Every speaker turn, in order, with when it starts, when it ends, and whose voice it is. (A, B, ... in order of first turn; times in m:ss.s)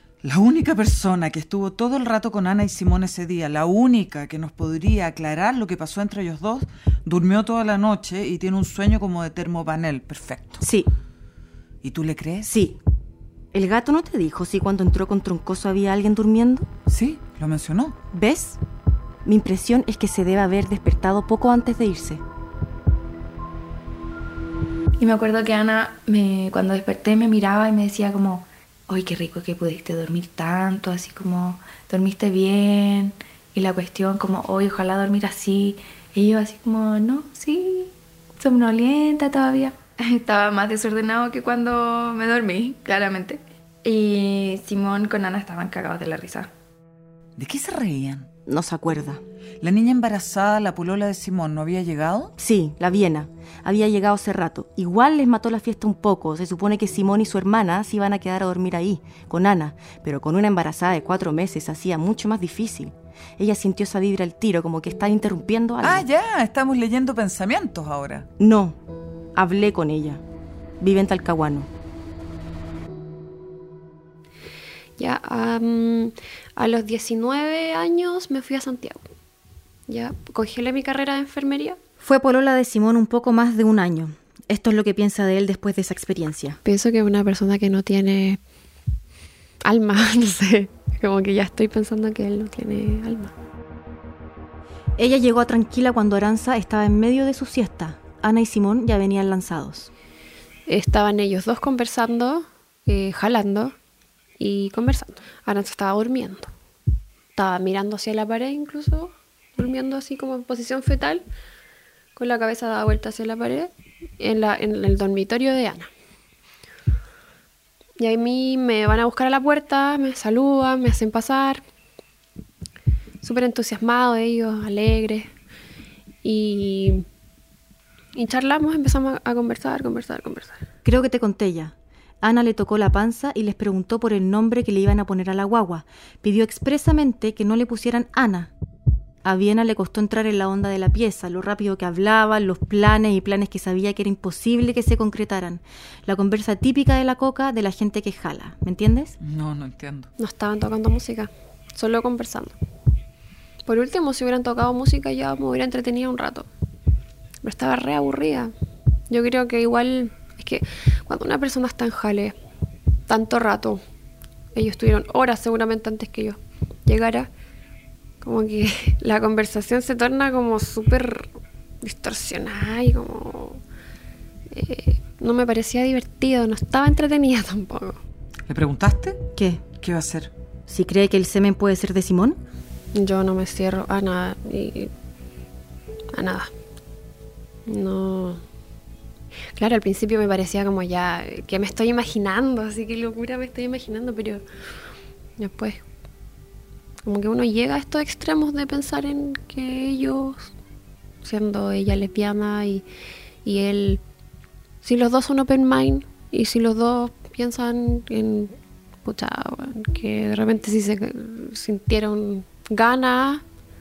0:00.2-0:10.6 A
0:10.6-0:10.9 B
0:11.8-0:12.5 A
0:12.4-0:12.8 B
0:13.5-0:16.7 B
0:16.9-0:18.0 A
0:18.1-0:18.6 B
0:19.2-0:22.2 B
0:25.0-0:46.5 C
0:47.4-0:48.3 A
0:48.4-0:49.2 B
0:49.6-0:52.3 A
0:52.4-1:06.0 B
1:05.8-1:08.3 A
1:08.4-1:08.8 B
1:09.4-1:10.2 B
1:10.8-1:11.7 B
1:15.0-1:19.0 D
1:19.9-1:21.8 D
1:22.0-1:26.6 B
1:26.6-1:28.4 D
1:29.6-1:33.3 D
1:35.0-1:39.9 B
1:40.6-1:43.7 D
1:44.4-1:46.5 D
1:47.3-1:51.2 D
1:52.2-1:55.9 D
1:58.0-2:01.6 D
2:03.2-2:05.3 D
2:06.2-2:07.0 D
2:08.1-2:10.6 D
2:10.8-2:18.5 B
2:19.2-2:29.1 B
2:29.2-2:30.1 A
2:30.2-2:32.6 D
2:33.6-2:36.5 D
2:37.4-2:38.5 D
2:39.1-2:42.4 D
2:43.1-2:43.8 D
2:44.5-2:47.3 D
2:48.2-2:53.6 D
2:54.5-2:58.0 D
2:58.5-2:59.2 A
2:59.3-2:59.6 B
2:59.8-3:00.3 A
3:00.7-3:02.4 B
3:02.9-3:04.9 D
3:06.1-3:06.5 D
3:07.7-3:08.4 D
3:09.5-3:14.4 D
3:15.4-3:15.8 D
3:17.0-3:20.5 D
3:21.2-3:22.8 D
3:23.4-3:24.0 D
3:24.8-3:33.4 D